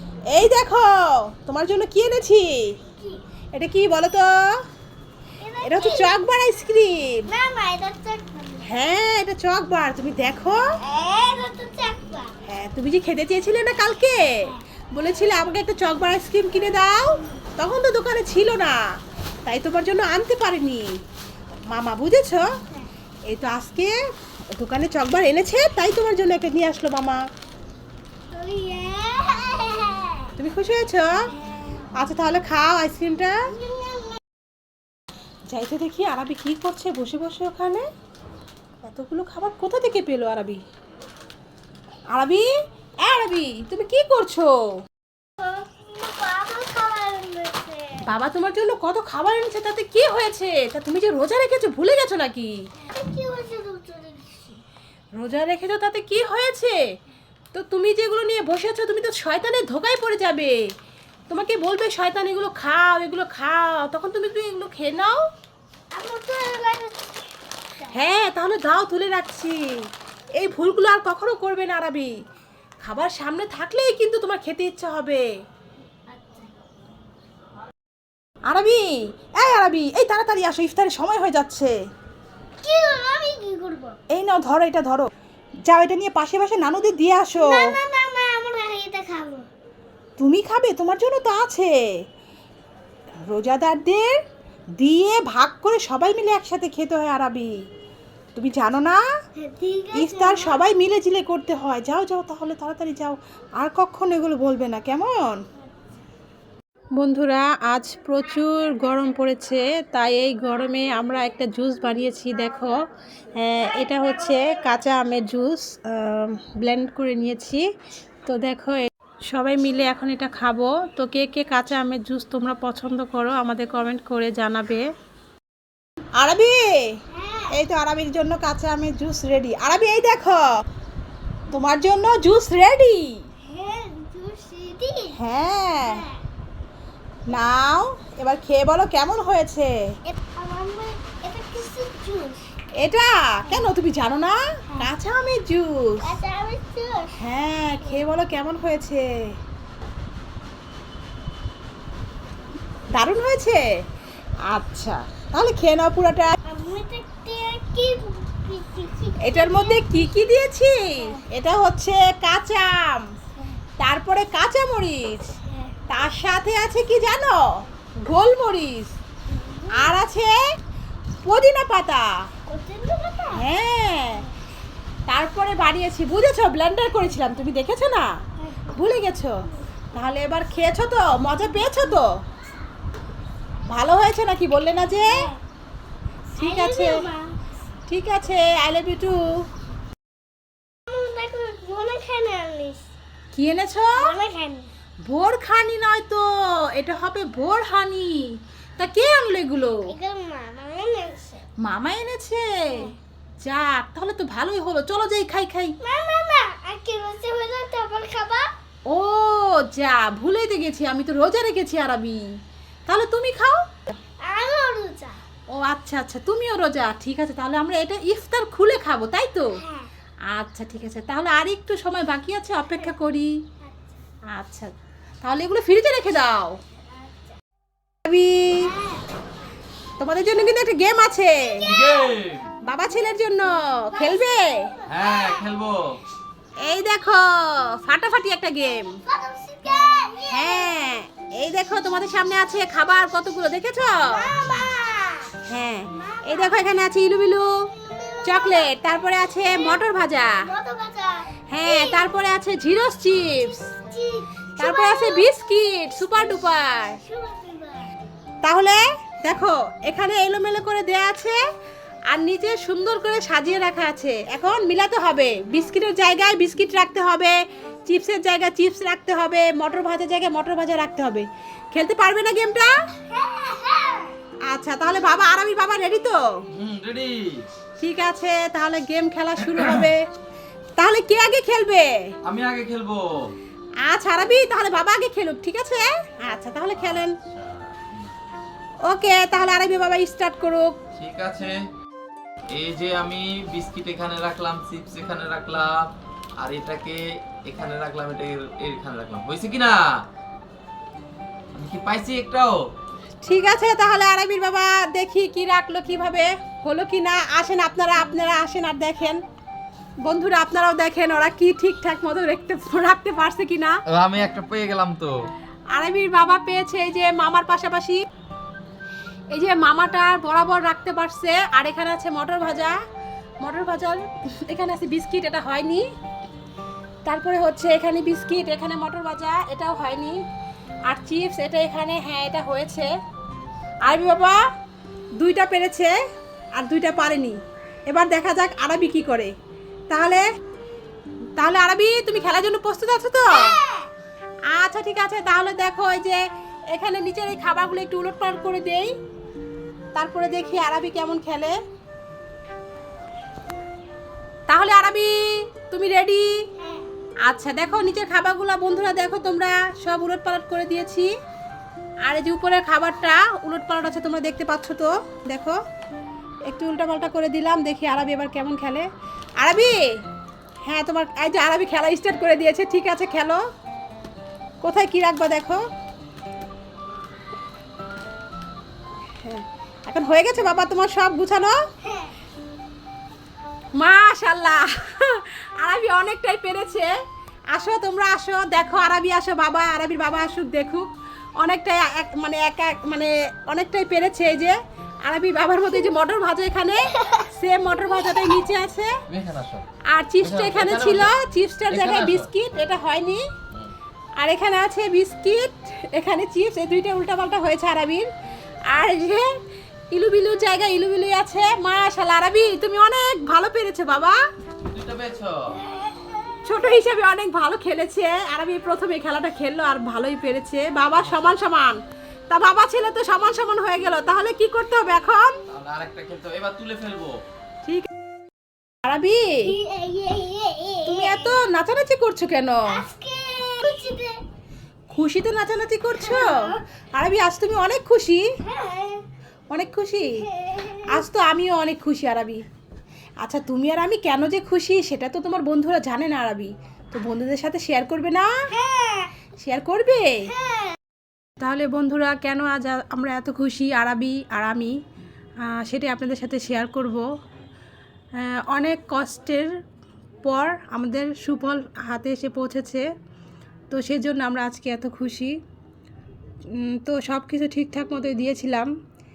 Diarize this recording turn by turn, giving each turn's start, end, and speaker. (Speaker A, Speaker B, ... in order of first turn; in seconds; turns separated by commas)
Speaker A: 0.3-2.6, Speaker A: 3.5-4.3, Speaker B: 5.4-6.1, Speaker A: 5.6-7.3, Speaker B: 7.3-8.6, Speaker A: 8.6-10.6, Speaker B: 10.8-12.3, Speaker A: 12.4-14.4, Speaker A: 14.9-18.8, Speaker A: 19.4-20.9, Speaker A: 21.7-22.4, Speaker A: 23.3-23.9, Speaker A: 24.6-27.2, Speaker B: 28.3-30.3, Speaker A: 30.4-31.1, Speaker A: 31.9-33.4, Speaker B: 33.5-34.2, Speaker A: 35.5-37.8, Speaker A: 38.8-40.6, Speaker A: 42.1-42.5, Speaker A: 43.0-44.5, Speaker B: 45.4-47.9, Speaker A: 48.0-52.5, Speaker B: 52.8-54.6, Speaker A: 55.1-56.8, Speaker A: 57.5-60.5, Speaker A: 61.3-65.2, Speaker B: 65.9-67.3, Speaker A: 67.9-69.6, Speaker A: 70.3-72.1, Speaker A: 72.8-75.2, Speaker B: 76.1-76.5, Speaker A: 78.5-81.7, Speaker B: 82.6-83.9, Speaker A: 84.1-85.1, Speaker A: 85.6-87.6, Speaker B: 87.4-89.4, Speaker A: 90.2-91.7, Speaker A: 93.3-94.1, Speaker A: 94.8-97.5, Speaker A: 98.3-99.0, Speaker B: 99.3-100.6, Speaker A: 99.9-105.4, Speaker A: 107.0-112.8, Speaker A: 113.4-117.6, Speaker A: 118.2-124.8, Speaker A: 126.2-126.6, Speaker B: 127.1-127.5, Speaker A: 127.5-130.4, Speaker A: 131.5-133.1, Speaker B: 133.4-135.2, Speaker A: 135.1-136.0, Speaker B: 135.8-136.1, Speaker A: 137.3-139.7, Speaker B: 140.1-142.4, Speaker A: 142.8-146.1, Speaker B: 143.5-143.7, Speaker B: 146.0-147.1, Speaker A: 147.2-149.1, Speaker A: 152.9-153.6, Speaker A: 154.5-156.3, Speaker B: 156.4-160.1, Speaker A: 159.2-163.0, Speaker A: 163.8-165.3, Speaker B: 165.4-165.8, Speaker A: 165.9-167.4, Speaker A: 168.0-168.9, Speaker B: 169.3-169.9, Speaker A: 169.7-170.3, Speaker A: 171.2-172.0, Speaker B: 172.5-173.4, Speaker A: 173.3-174.2, Speaker A: 175.1-178.1, Speaker B: 178.4-178.7, Speaker A: 178.7-179.3, Speaker A: 179.9-182.1, Speaker A: 183.7-185.3, Speaker B: 185.0-185.4, Speaker B: 186.3-187.3, Speaker A: 186.4-187.0, Speaker A: 187.9-189.2, Speaker B: 190.9-192.8, Speaker A: 193.3-194.0, Speaker B: 194.0-194.7, Speaker A: 195.1-196.2, Speaker A: 196.8-198.2, Speaker A: 198.8-199.8, Speaker B: 199.8-201.4, Speaker A: 201.6-202.4, Speaker A: 203.4-205.7, Speaker B: 205.8-208.5, Speaker A: 208.9-212.2, Speaker A: 212.9-213.6, Speaker B: 214.2-215.2, Speaker A: 215.5-219.4, Speaker B: 219.6-219.9, Speaker A: 220.3-223.3, Speaker A: 224.3-226.6, Speaker A: 228.1-228.7, Speaker B: 228.6-229.1, Speaker A: 230.0-231.6, Speaker B: 231.6-232.1, Speaker C: 231.6-232.5, Speaker A: 232.7-234.7, Speaker B: 233.9-235.5, Speaker C: 234.9-236.0, Speaker A: 236.6-238.9, Speaker B: 238.9-240.8, Speaker A: 240.3-244.3, Speaker B: 244.1-245.3, Speaker A: 245.4-247.6, Speaker B: 245.9-246.7, Speaker B: 247.7-248.7, Speaker A: 248.2-250.4, Speaker B: 249.4-249.8, Speaker B: 250.4-252.0, Speaker A: 251.5-253.6, Speaker B: 253.9-255.3, Speaker A: 254.6-257.0, Speaker B: 256.2-257.9, Speaker A: 258.4-261.4, Speaker A: 262.1-267.3, Speaker A: 267.9-272.7, Speaker B: 273.1-274.1, Speaker A: 274.5-276.2, Speaker C: 276.5-277.5, Speaker A: 277.8-280.0, Speaker A: 280.8-281.9, Speaker C: 282.2-283.1, Speaker A: 283.9-287.1, Speaker C: 286.8-288.1, Speaker A: 288.9-290.7, Speaker C: 290.9-291.6, Speaker C: 292.5-299.8, Speaker C: 301.5-302.6, Speaker A: 303.2-309.2, Speaker A: 310.0-313.8, Speaker C: 313.9-315.1, Speaker A: 315.7-318.0, Speaker A: 319.3-322.8, Speaker A: 323.4-325.8, Speaker A: 327.0-330.1, Speaker A: 330.9-332.9, Speaker A: 333.8-334.4, Speaker A: 335.2-335.9, Speaker A: 336.5-337.4, Speaker A: 337.9-339.3, Speaker A: 339.9-340.2, Speaker A: 341.4-343.5, Speaker B: 343.3-343.9, Speaker A: 344.5-348.9, Speaker A: 349.9-351.6, Speaker A: 354.5-355.1, Speaker A: 355.7-356.3, Speaker B: 356.6-356.9, Speaker A: 357.2-361.1, Speaker A: 362.0-365.6, Speaker A: 366.5-368.9, Speaker A: 369.4-369.7, Speaker A: 370.6-373.4, Speaker A: 374.6-375.6, Speaker A: 379.2-381.6, Speaker B: 381.8-382.1, Speaker A: 383.7-386.9, Speaker A: 387.5-390.9, Speaker A: 391.4-399.0, Speaker B: 396.9-397.3, Speaker B: 397.8-398.4, Speaker C: 399.1-399.6, Speaker A: 399.9-403.2, Speaker C: 400.2-401.1, Speaker C: 401.7-402.3, Speaker A: 404.2-408.1, Speaker A: 408.7-409.2, Speaker A: 409.9-414.1, Speaker C: 414.7-415.3, Speaker B: 415.7-416.4, Speaker A: 416.4-421.8, Speaker A: 422.3-425.4, Speaker C: 425.5-427.2, Speaker A: 428.8-429.4, Speaker B: 429.4-431.4, Speaker A: 430.9-432.8, Speaker B: 432.7-434.2, Speaker A: 434.9-438.2, Speaker B: 436.0-436.6, Speaker B: 438.4-439.0, Speaker A: 439.5-440.1, Speaker B: 440.1-441.0, Speaker A: 440.9-442.4, Speaker A: 443.2-448.3, Speaker B: 448.5-449.1, Speaker A: 449.4-450.3, Speaker B: 450.3-450.8, Speaker A: 451.4-454.7, Speaker A: 455.4-457.1, Speaker A: 458.2-459.5, Speaker A: 460.2-462.8, Speaker A: 463.7-465.3, Speaker A: 466.6-468.7